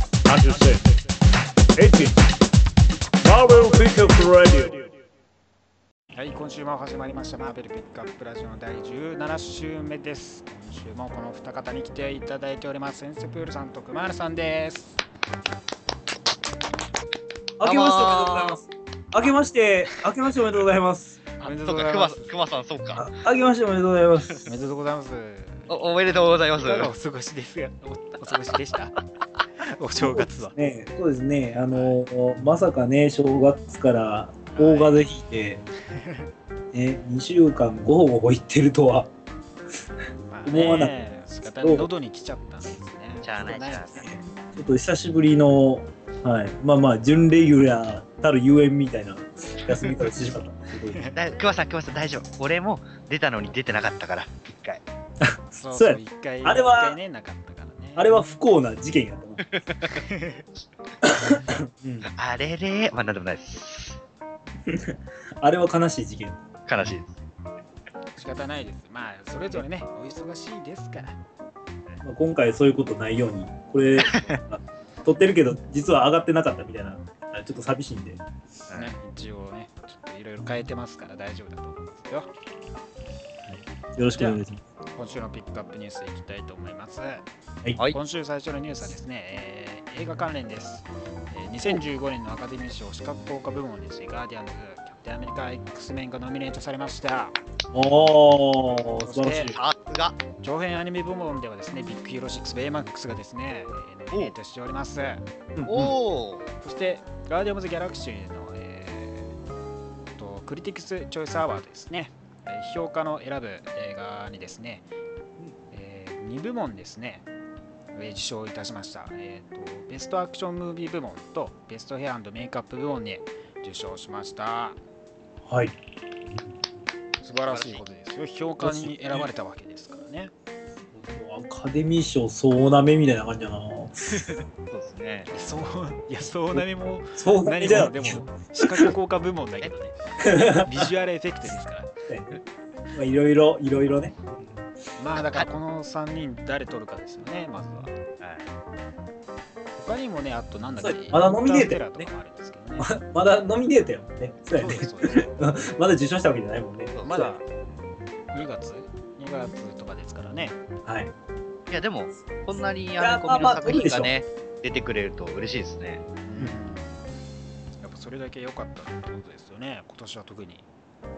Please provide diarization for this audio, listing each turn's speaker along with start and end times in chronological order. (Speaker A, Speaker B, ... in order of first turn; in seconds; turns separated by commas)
Speaker A: 0.3-0.9, Speaker A: 1.8-2.3, Speaker A: 3.2-4.9, Speaker B: 6.1-15.0, Speaker C: 17.6-21.2, Speaker D: 17.6-18.6, Speaker B: 21.4-22.6, Speaker D: 21.4-23.1, Speaker C: 22.9-24.4, Speaker B: 24.4-25.8, Speaker D: 25.7-26.9, Speaker B: 26.6-29.0, Speaker B: 29.6-30.6, Speaker C: 30.0-35.6, Speaker B: 31.7-32.0, Speaker B: 34.5-35.0, Speaker B: 35.9-36.3, Speaker C: 36.7-39.1, Speaker B: 40.3-44.1, Speaker C: 40.5-41.9, Speaker D: 43.2-44.1, Speaker C: 44.0-51.0, Speaker B: 50.9-51.2, Speaker D: 51.1-54.8, Speaker C: 55.2-57.0, Speaker B: 55.5-58.1, Speaker C: 58.0-59.5, Speaker B: 59.8-60.5, Speaker C: 61.0-62.1, Speaker D: 62.1-64.0, Speaker C: 64.7-66.4, Speaker D: 66.7-67.2, Speaker B: 68.2-71.2, Speaker C: 72.0-78.2, Speaker B: 78.7-82.3, Speaker C: 83.5-84.6, Speaker B: 84.1-84.4, Speaker B: 85.0-87.2, Speaker B: 87.9-97.4, Speaker C: 97.7-99.6, Speaker B: 99.0-99.6, Speaker D: 99.5-100.2, Speaker B: 100.4-105.2, Speaker C: 105.5-106.0, Speaker D: 105.7-106.5, Speaker B: 106.6-109.4, Speaker B: 110.2-114.9, Speaker B: 115.7-117.3, Speaker B: 118.0-124.8, Speaker C: 125.4-125.8, Speaker B: 127.2-130.3, Speaker D: 127.5-127.8, Speaker C: 128.6-129.3, Speaker C: 130.9-134.2, Speaker D: 134.7-135.3, Speaker B: 135.3-141.9, Speaker C: 137.2-138.9, Speaker C: 140.2-140.9, Speaker C: 142.1-142.4, Speaker C: 142.9-144.2, Speaker B: 145.0-148.0, Speaker D: 145.2-145.4, Speaker D: 148.2-148.5, Speaker B: 149.8-152.9, Speaker C: 150.8-152.1, Speaker C: 152.8-157.3, Speaker B: 154.6-155.3, Speaker B: 157.0-157.4, Speaker B: 158.3-160.6, Speaker C: 160.8-161.1, Speaker D: 161.7-166.1, Speaker C: 163.0-164.1, Speaker B: 166.2-167.0, Speaker B: 167.8-170.7